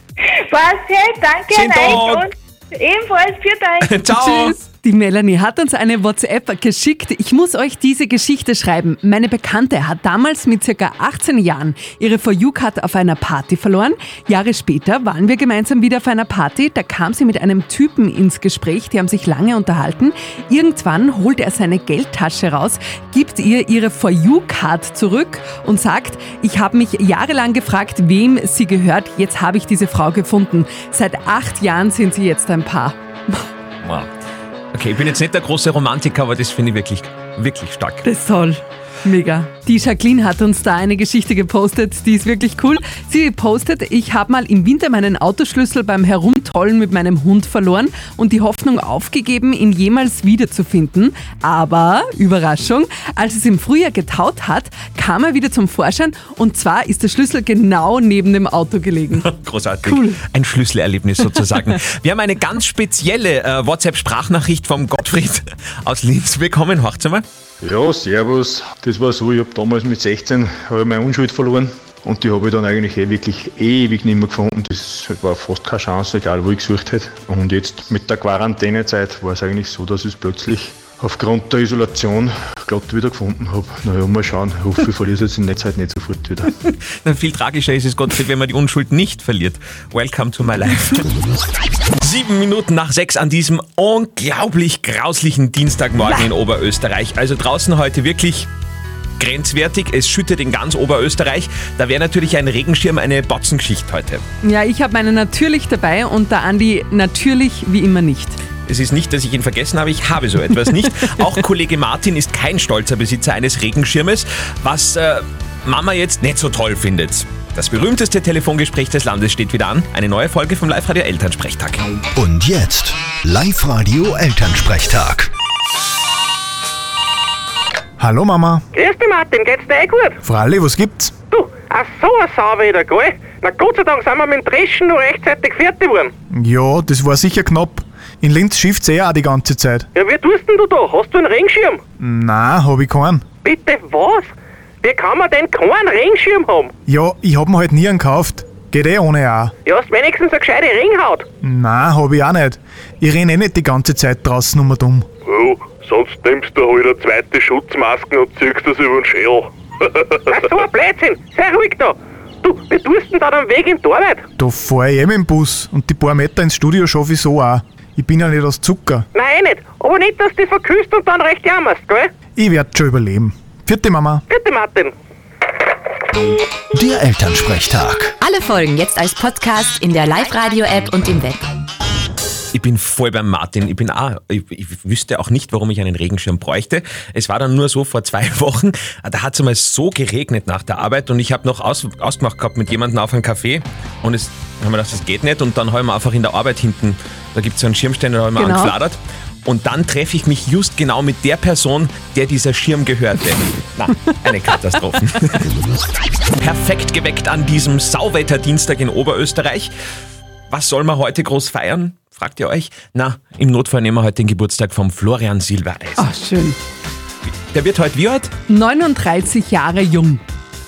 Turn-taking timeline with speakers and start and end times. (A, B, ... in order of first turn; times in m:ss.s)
0:00.2-0:04.0 A
0:01.5-0:02.3 B
0:03.8-0:04.5 B
0:04.1-0:33.5 C
0:33.8-0:34.1 B
0:34.7-0:38.0 B
0:38.0-0:59.3 C
0:59.2-1:07.2 B
0:59.8-1:00.2 C
1:07.6-1:26.5 D
1:26.7-1:31.0 B
1:32.0-1:38.5 B
1:39.2-1:44.2 B
1:44.4-1:48.4 C
1:48.6-2:01.8 B
2:02.2-2:05.3 E
2:08.0-2:08.6 F
2:08.7-2:10.2 G
2:10.2-2:11.2 F
2:11.3-2:16.1 G
2:16.4-2:19.9 F
2:19.9-2:21.8 G
2:22.0-2:23.2 F
2:23.4-2:24.3 G
2:24.8-2:26.7 G
2:26.9-2:29.5 F
2:29.6-2:31.2 G
2:31.4-2:35.0 F
2:35.3-2:39.4 H
2:40.3-2:44.2 G
2:44.4-2:49.1 F
2:49.1-2:52.1 G
2:52.4-2:54.2 F
2:54.3-2:54.9 G
2:56.7-2:58.1 E
2:58.2-3:01.4 I
3:02.5-3:25.5 B
3:18.4-3:18.8 C
3:26.4-3:29.7 B
3:30.5-3:36.0 B
3:36.0-3:36.6 C
3:37.3-3:38.3 B
3:38.5-3:40.2 C